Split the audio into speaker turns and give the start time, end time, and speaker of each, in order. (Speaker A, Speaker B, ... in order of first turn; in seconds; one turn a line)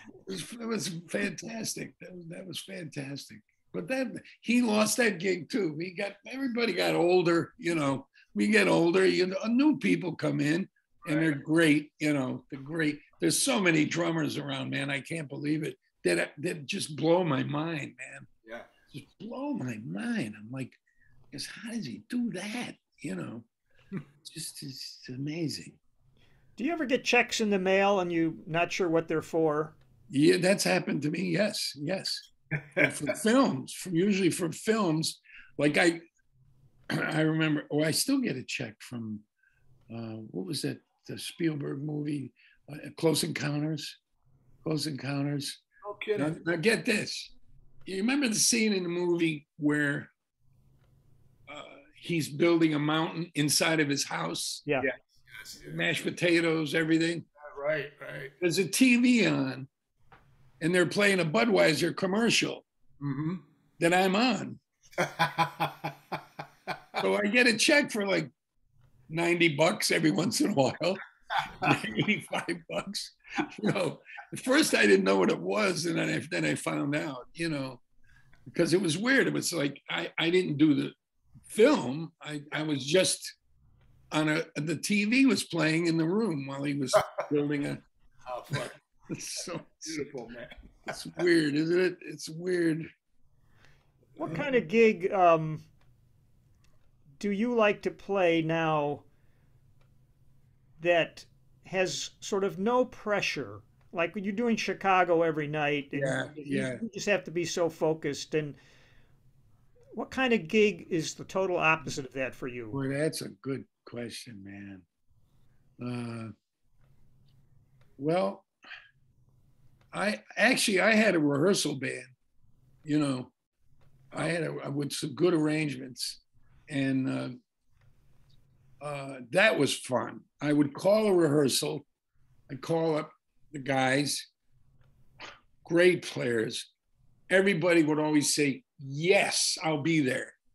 Speaker A: 0.2-18.3
Speaker B: 11.0-11.4
Speaker A: 18.9-20.8
Speaker A: 21.3-23.4
Speaker A: 24.2-25.8
Speaker C: 26.6-29.8
Speaker A: 30.1-36.0
Speaker B: 32.6-32.9
Speaker A: 36.9-39.2
Speaker A: 39.9-44.0
Speaker A: 44.6-45.6
Speaker B: 45.8-46.3
Speaker A: 46.1-47.3
Speaker A: 47.9-50.1
Speaker A: 51.5-54.6
Speaker B: 54.8-55.9
Speaker A: 55.6-57.2
Speaker B: 57.4-58.3
Speaker A: 58.4-59.7
Speaker A: 60.6-62.6
Speaker B: 63.0-63.4
Speaker A: 63.8-64.6
Speaker B: 65.0-65.9
Speaker A: 67.0-68.3
Speaker A: 69.1-77.8
Speaker A: 78.5-80.9
Speaker A: 81.5-83.3
Speaker A: 84.1-87.8
Speaker B: 88.3-88.8
Speaker A: 88.5-90.0
Speaker B: 89.8-91.0
Speaker A: 90.9-92.9
Speaker C: 94.2-95.6
Speaker C: 97.2-99.0
Speaker C: 100.8-108.6
Speaker A: 105.9-106.8
Speaker C: 109.9-112.8
Speaker A: 112.7-114.8
Speaker A: 115.8-116.3
Speaker A: 118.0-118.5
Speaker A: 119.9-122.1
Speaker A: 122.8-123.3
Speaker A: 124.1-127.4
Speaker A: 128.8-131.8
Speaker A: 132.5-134.3
Speaker A: 135.6-136.7
Speaker A: 137.3-140.3